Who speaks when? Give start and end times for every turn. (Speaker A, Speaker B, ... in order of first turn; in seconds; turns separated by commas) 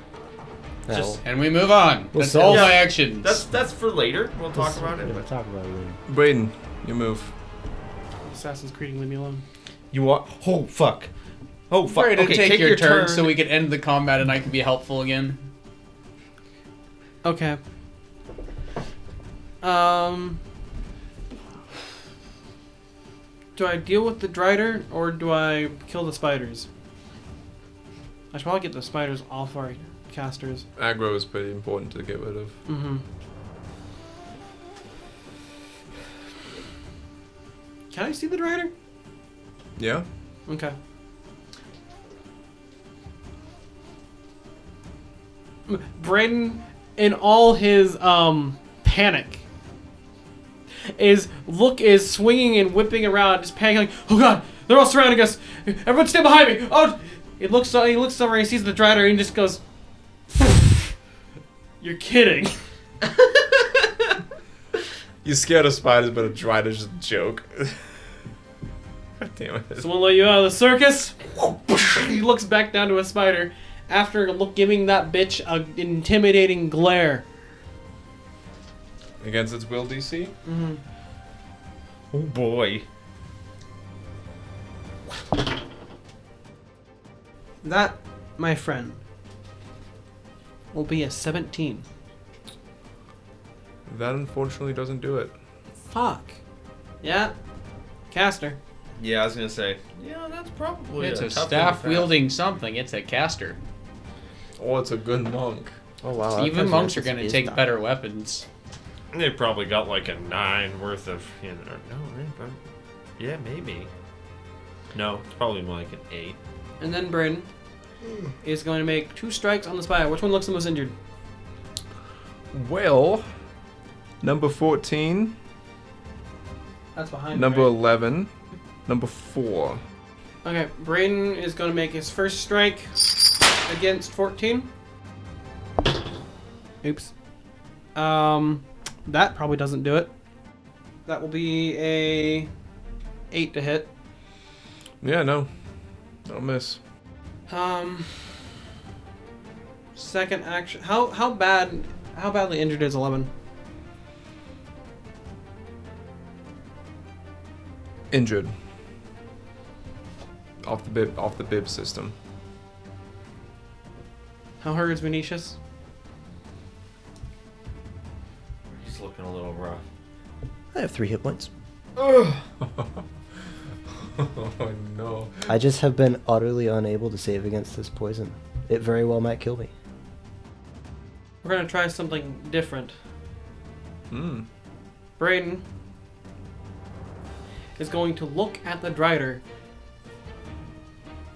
Speaker A: 0.9-1.2, Speaker B: 1.0-3.4, Speaker A: 2.1-2.9, Speaker C: 2.4-5.3, Speaker A: 4.5-6.0, Speaker D: 6.1-7.3, Speaker E: 8.3-9.4, Speaker C: 9.9-11.1, Speaker C: 11.7-13.3, Speaker B: 11.9-15.5, Speaker E: 17.2-17.6, Speaker E: 19.6-20.4, Speaker E: 23.6-26.7, Speaker E: 28.3-30.7, Speaker D: 30.8-32.6, Speaker E: 32.7-33.0, Speaker E: 37.9-38.7, Speaker D: 39.8-40.1, Speaker E: 40.5-40.8, Speaker E: 45.7-49.4, Speaker E: 50.9-59.6, Speaker E: 60.4-60.6, Speaker E: 61.8-62.6, Speaker D: 65.2-67.9, Speaker D: 69.2-69.9, Speaker E: 69.8-77.2, Speaker D: 79.2-80.3, Speaker E: 80.5-80.8, Speaker C: 82.1-82.9, Speaker E: 87.6-89.0, Speaker E: 90.7-91.8, Speaker D: 93.9-95.3, Speaker E: 95.9-96.3, Speaker E: 97.0-97.3, Speaker E: 98.1-98.6, Speaker C: 99.0-102.1, Speaker B: 101.0-103.6, Speaker D: 104.6-105.8, Speaker A: 106.0-107.7, Speaker B: 106.3-108.5, Speaker C: 109.1-112.6, Speaker C: 113.2-113.9, Speaker C: 114.9-116.4, Speaker E: 116.8-117.5, Speaker E: 118.4-120.9, Speaker D: 122.5-123.3, Speaker D: 124.2-125.4, Speaker E: 127.0-127.8, Speaker D: 127.3-128.3, Speaker D: 128.9-129.8, Speaker E: 130.4-134.7, Speaker E: 136.8-137.1, Speaker E: 137.9-140.1, Speaker E: 141.1-142.5, Speaker E: 143.3-143.9, Speaker D: 145.0-145.5, Speaker D: 146.3-146.8, Speaker E: 147.5-148.3, Speaker E: 149.9-153.3, Speaker D: 158.1-158.6, Speaker D: 160.6-162.2, Speaker E: 164.6-165.6, Speaker C: 168.8-169.8, Speaker A: 170.7-171.5, Speaker D: 172.0-173.1, Speaker D: 174.1-175.5, Speaker A: 175.5-179.7, Speaker E: 181.4-183.0, Speaker D: 184.1-184.5, Speaker E: 185.2-185.6, Speaker E: 187.8-189.4